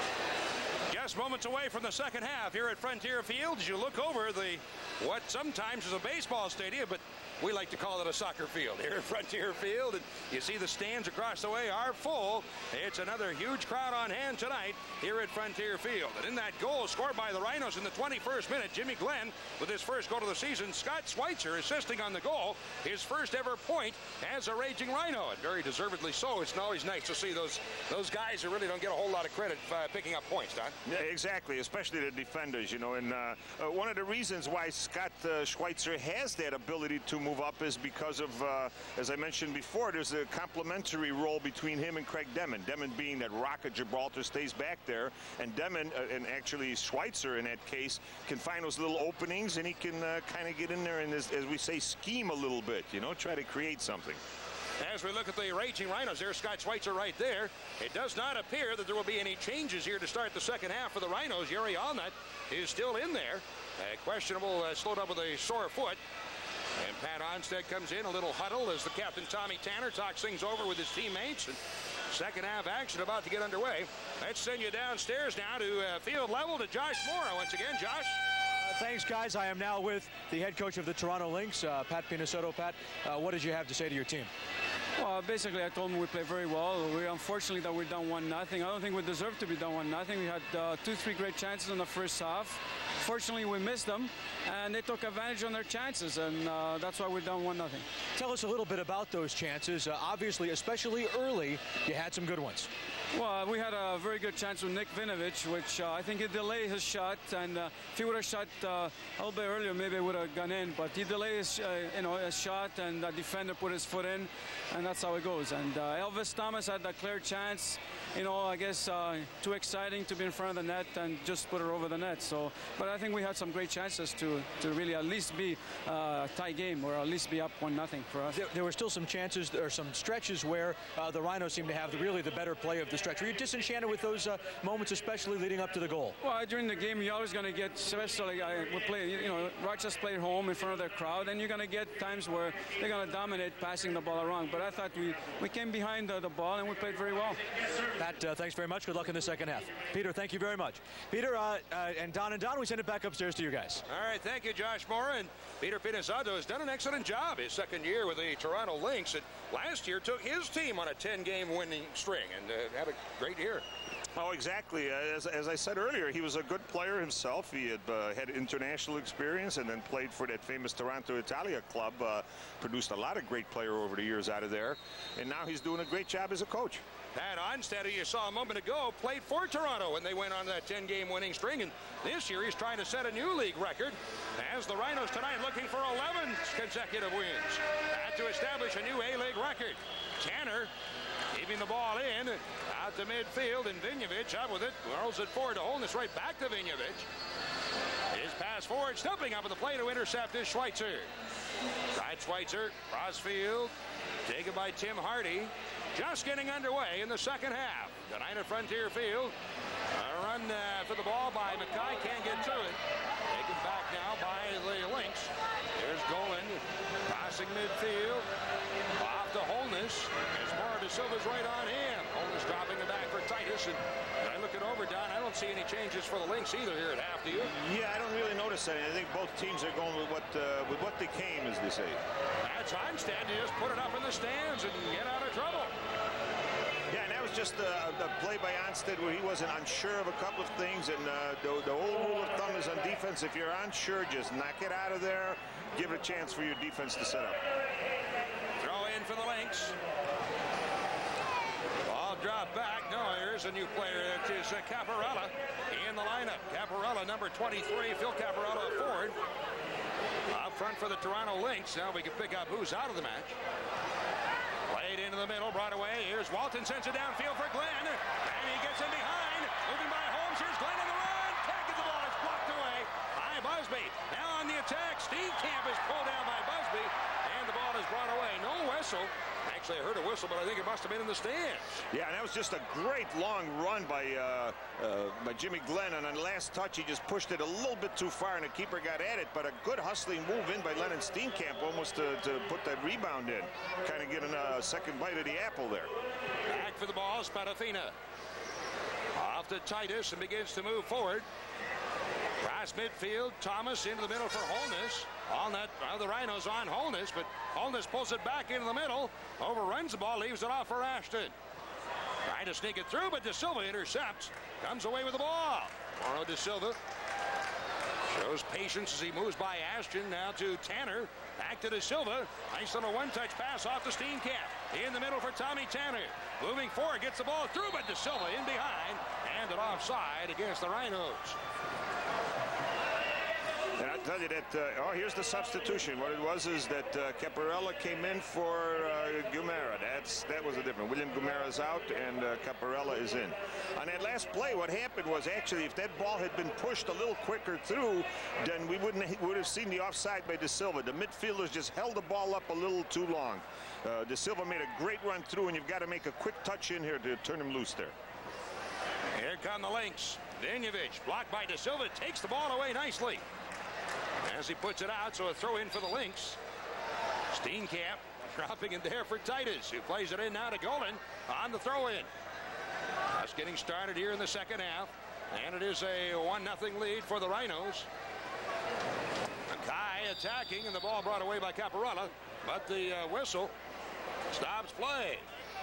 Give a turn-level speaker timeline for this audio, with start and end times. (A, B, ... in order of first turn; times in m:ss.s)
0:00.9-0:30.8 A
0:30.8-0:54.2 B
0:54.8-1:06.0 A
1:06.8-1:11.6 A
1:12.1-1:18.2 A
1:18.6-1:24.3 C
1:25.0-1:37.9 D
1:38.2-1:42.7 C
1:43.1-2:08.4 D
2:08.4-2:16.1 C
2:16.2-2:27.4 D
2:28.0-2:33.8 C
2:33.9-2:43.6 A
2:44.2-2:56.8 B
2:57.1-3:10.7 A
3:11.3-3:17.1 A
3:18.1-3:21.1 A
3:21.9-3:23.7 A
3:24.2-3:29.3 A
3:29.9-3:38.3 A
3:39.0-3:47.5 A
3:47.3-3:52.0 B
3:52.4-3:55.7 A
3:56.9-4:07.4 B
4:08.6-4:09.7 A
4:11.8-4:19.2 A
4:20.3-4:23.4 A
4:24.7-4:41.8 A
4:41.9-4:55.9 B
4:56.5-4:57.9 A
4:59.1-5:01.2 A
5:02.4-5:11.3 A
5:12.2-5:16.8 A
5:18.1-5:31.4 A
5:33.8-5:57.9 B
5:59.1-6:03.2 A
6:04.2-6:06.4 A
6:07.3-6:12.1 A
6:13.1-6:17.9 A
6:19.5-6:23.5 A
6:24.3-6:25.3 A